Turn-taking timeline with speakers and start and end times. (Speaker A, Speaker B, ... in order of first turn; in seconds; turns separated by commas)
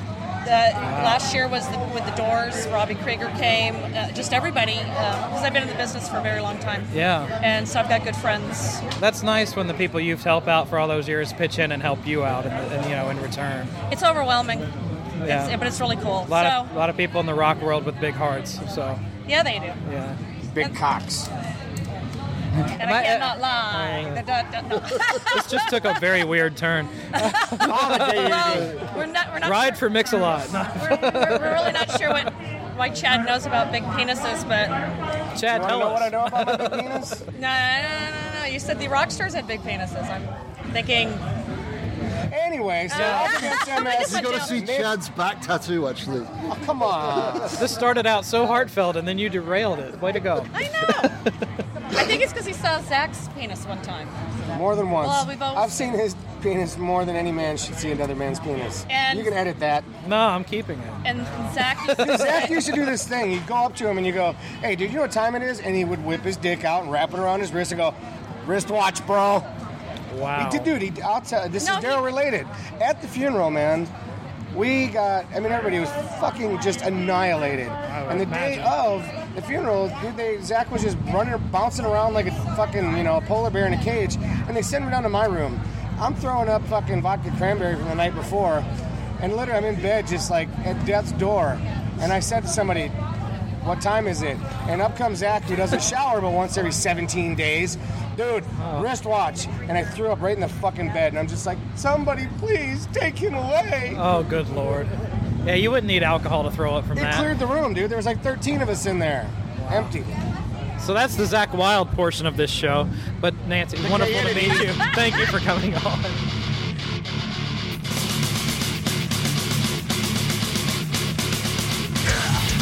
Speaker A: 0.4-6.9, Speaker B: 0.8-1.2, Speaker B: 6.9-7.3, Speaker A: 7.4-8.8, Speaker B: 9.0-13.7, Speaker A: 13.9-14.7, Speaker A: 15.2-16.7, Speaker B: 15.2-15.5, Speaker B: 16.2-19.0, Speaker A: 19.2-19.8, Speaker B: 19.8-20.2, Speaker C: 20.5-21.3, Speaker B: 22.8-24.2, Speaker A: 22.8-26.0, Speaker B: 25.3-28.4, Speaker A: 27.1-34.8, Speaker C: 27.6-28.8, Speaker B: 29.4-32.3, Speaker B: 35.3-37.0, Speaker C: 35.5-37.2, Speaker A: 37.4-41.2, Speaker C: 42.3-45.0, Speaker A: 42.9-44.6, Speaker B: 42.9-43.3, Speaker D: 43.8-46.3, Speaker C: 46.5-47.6, Speaker B: 47.6-50.5, Speaker A: 50.5-51.1, Speaker A: 51.9-54.1, Speaker C: 54.5-59.9, Speaker A: 55.0-55.8, Speaker A: 58.9-59.3, Speaker B: 60.0-61.0, Speaker A: 61.0-62.6, Speaker C: 62.0-69.5, Speaker B: 70.1-70.7, Speaker C: 70.3-73.9, Speaker A: 71.6-72.1, Speaker C: 74.5-88.7, Speaker B: 77.9-78.7, Speaker C: 89.2-92.9, Speaker C: 93.6-104.0, Speaker B: 98.6-98.9, Speaker B: 103.9-104.9, Speaker B: 105.4-107.3, Speaker C: 106.9-110.2, Speaker B: 110.8-116.2, Speaker C: 113.9-114.4, Speaker A: 114.8-115.3